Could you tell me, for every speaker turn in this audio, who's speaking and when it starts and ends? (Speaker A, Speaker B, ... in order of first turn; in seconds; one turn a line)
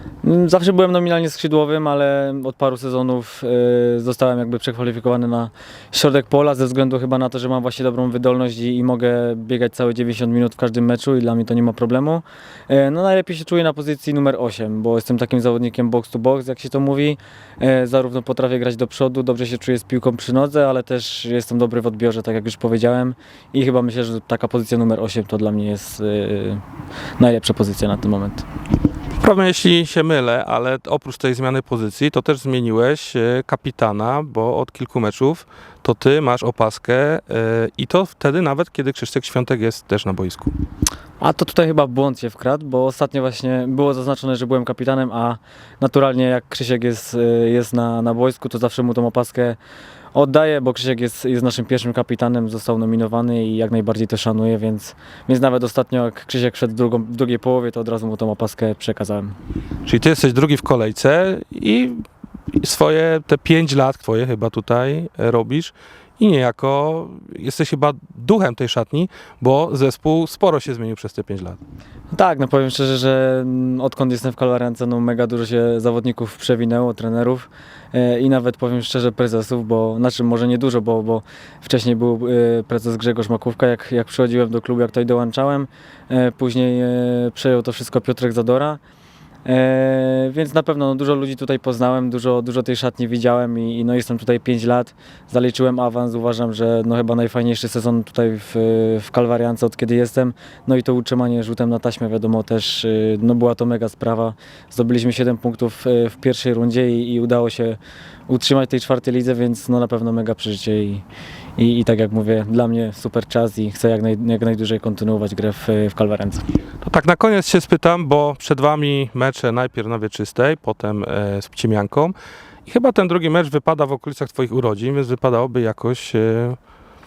Speaker A: 0.2-26.6
Speaker A: 27.2-28.4
Speaker B: 29.2-40.5
Speaker A: 41.2-49.6
Speaker A: 50.1-59.3
Speaker B: 59.8-62.0
Speaker B: 62.6-71.6
Speaker A: 72.1-88.8
Speaker A: 89.4-111.0
Speaker A: 111.6-116.4
Speaker B: 116.8-122.1
Speaker B: 122.7-126.6